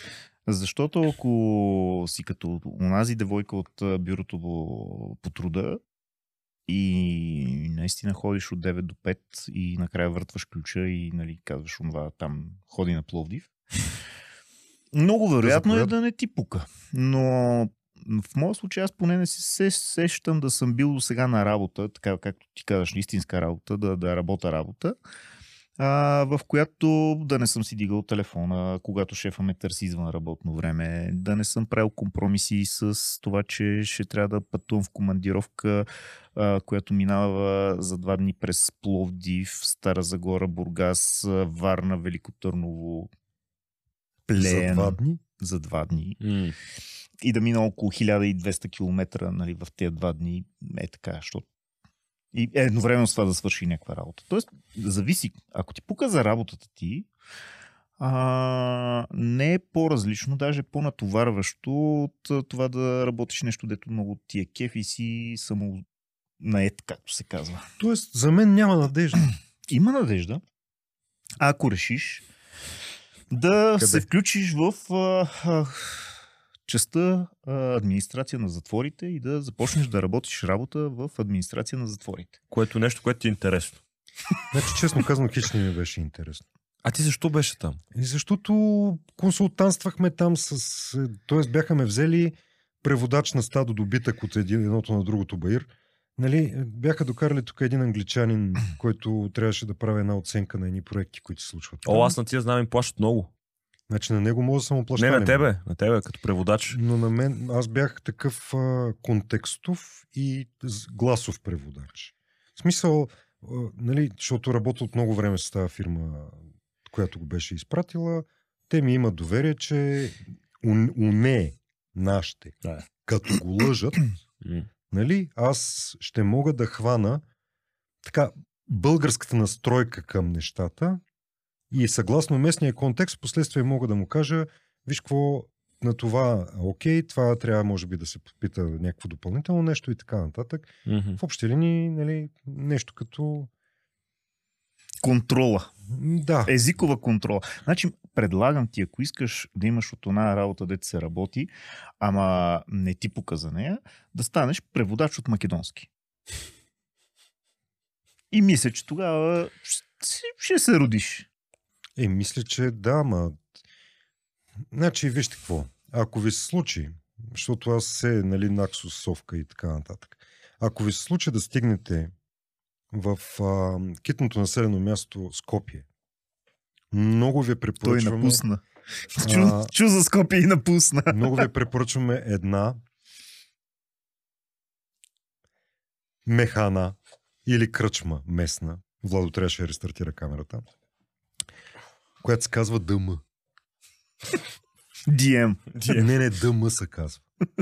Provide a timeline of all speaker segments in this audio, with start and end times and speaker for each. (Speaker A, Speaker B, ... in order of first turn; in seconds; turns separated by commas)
Speaker A: 0.5-5.8, Speaker A: 6.7-13.5, Speaker A: 14.9-25.0, Speaker B: 15.4-15.9, Speaker A: 25.8-43.1, Speaker A: 44.3-46.2, Speaker B: 44.4-45.2, Speaker C: 46.2-46.5, Speaker A: 47.2-51.5, Speaker A: 52.3-57.1, Speaker A: 58.0-65.8, Speaker A: 66.4-67.7, Speaker B: 67.8-69.2, Speaker A: 69.7-70.4, Speaker A: 71.4-72.2, Speaker A: 73.3-82.3, Speaker C: 73.8-74.0, Speaker C: 82.5-83.8, Speaker B: 84.5-86.5, Speaker C: 86.8-87.8, Speaker B: 87.9-102.1, Speaker C: 101.8-103.3, Speaker B: 103.9-105.5, Speaker C: 105.0-106.8, Speaker B: 106.7-124.2, Speaker C: 124.4-124.7, Speaker B: 124.9-127.2, Speaker B: 128.0-131.0, Speaker B: 131.7-143.5, Speaker C: 140.8-141.2, Speaker A: 145.0-145.7, Speaker B: 145.9-146.5, Speaker A: 146.4-151.5, Speaker A: 152.0-155.9, Speaker A: 158.3-161.3, Speaker B: 162.0-163.4, Speaker B: 164.7-172.1, Speaker B: 172.9-175.8, Speaker B: 176.9-178.4, Speaker A: 177.8-181.5, Speaker B: 179.2-179.7, Speaker B: 181.1-182.8, Speaker B: 186.2-190.6, Speaker B: 192.2-193.2, Speaker A: 195.1-195.8, Speaker C: 195.7-196.1, Speaker B: 195.9-197.2